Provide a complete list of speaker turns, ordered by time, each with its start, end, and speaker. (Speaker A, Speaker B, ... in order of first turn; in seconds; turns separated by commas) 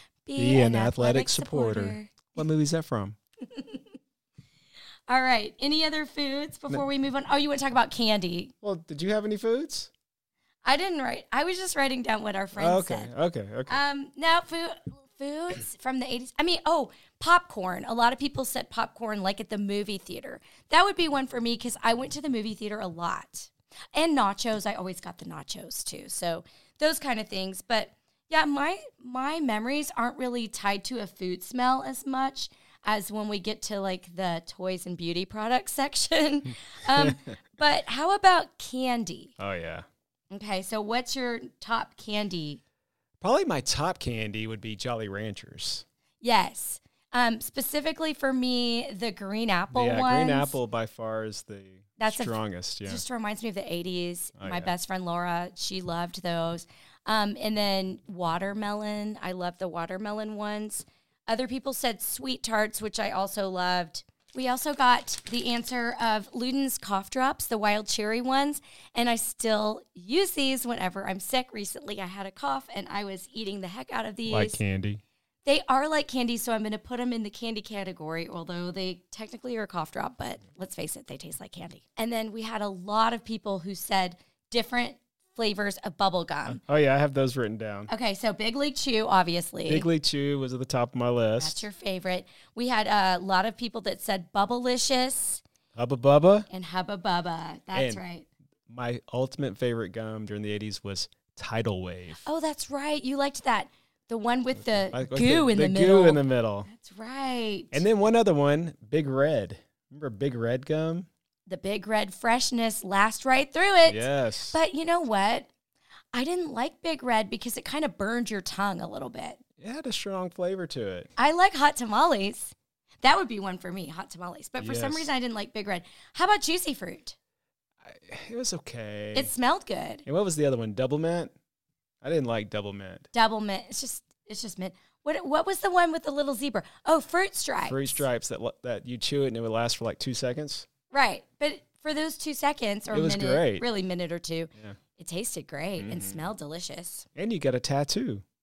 Speaker A: 0.3-2.4, Speaker B: 0.4-3.2, Speaker A: 3.5-3.8, Speaker A: 5.1-8.5, Speaker B: 8.6-9.9, Speaker A: 10.6-13.1, Speaker B: 12.5-13.8, Speaker A: 13.7-39.4, Speaker B: 39.4-39.9, Speaker A: 40.3-42.6, Speaker B: 43.2-45.9, Speaker A: 46.2-50.6, Speaker B: 49.7-53.0, Speaker A: 52.0-74.6, Speaker B: 54.4-54.7, Speaker B: 74.3-75.0, Speaker A: 75.5-86.6, Speaker B: 86.5-87.9, Speaker A: 87.9-89.9, Speaker B: 89.7-91.6, Speaker A: 91.4-95.4, Speaker B: 95.8-96.5, Speaker A: 96.5-98.3, Speaker B: 97.7-98.0, Speaker B: 98.7-102.2, Speaker A: 102.2-107.8, Speaker B: 104.6-106.7, Speaker B: 107.7-111.1, Speaker A: 111.5-115.5, Speaker B: 113.9-114.6, Speaker A: 116.1-119.4, Speaker B: 119.6-121.1, Speaker A: 121.2-127.2, Speaker B: 124.6-125.1, Speaker B: 127.8-129.3, Speaker A: 129.1-130.0, Speaker B: 130.1-131.3, Speaker B: 132.0-133.1, Speaker A: 133.1-138.1, Speaker B: 137.7-140.7, Speaker A: 140.9-147.1, Speaker B: 142.9-143.7, Speaker B: 145.8-146.3, Speaker B: 147.2-148.2